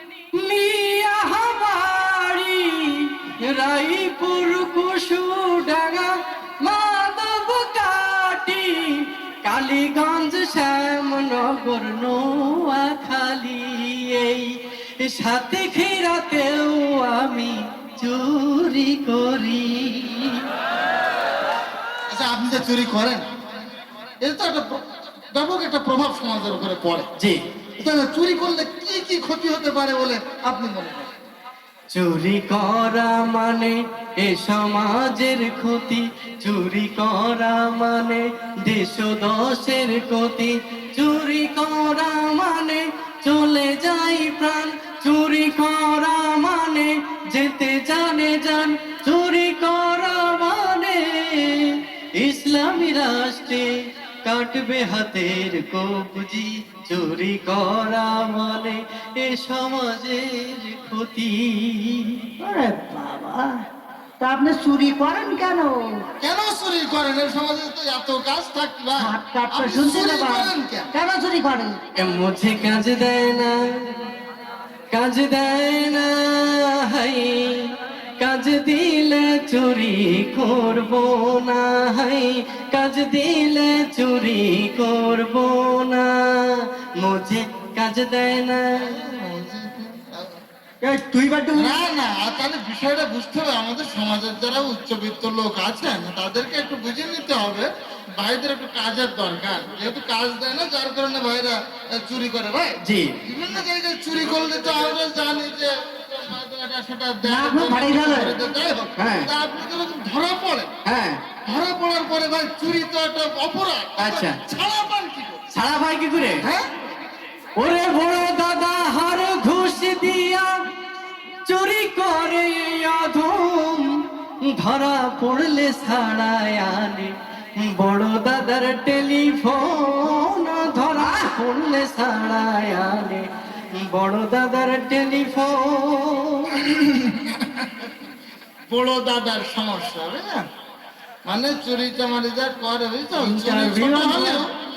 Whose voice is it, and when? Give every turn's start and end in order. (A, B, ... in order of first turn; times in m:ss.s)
0:00.4-0:20.5 A
0:22.1-0:23.2 B
0:24.2-0:27.1 B
0:27.8-0:31.1 B
0:31.9-1:02.2 A
1:02.4-1:03.6 C
1:04.2-1:06.0 C
1:06.2-1:10.9 B
1:09.0-1:11.8 C
1:12.0-1:13.6 A
1:14.9-1:28.9 A
1:28.8-1:30.3 B
1:30.8-1:31.7 C
1:31.6-1:42.7 B
1:42.8-1:43.1 A
1:43.2-1:50.7 B
1:47.2-1:48.4 C
1:49.0-1:49.3 A
1:50.8-1:51.2 A
1:51.4-1:55.4 B
1:54.0-1:54.4 A
1:55.5-1:56.4 A
1:56.3-1:56.7 B
1:57.6-2:00.5 A
2:01.4-2:03.9 A
2:04.5-2:13.2 A
2:13.8-2:16.6 A
2:16.7-2:17.9 B
2:18.7-2:20.4 B
2:21.2-2:24.5 B
2:23.2-2:24.4 C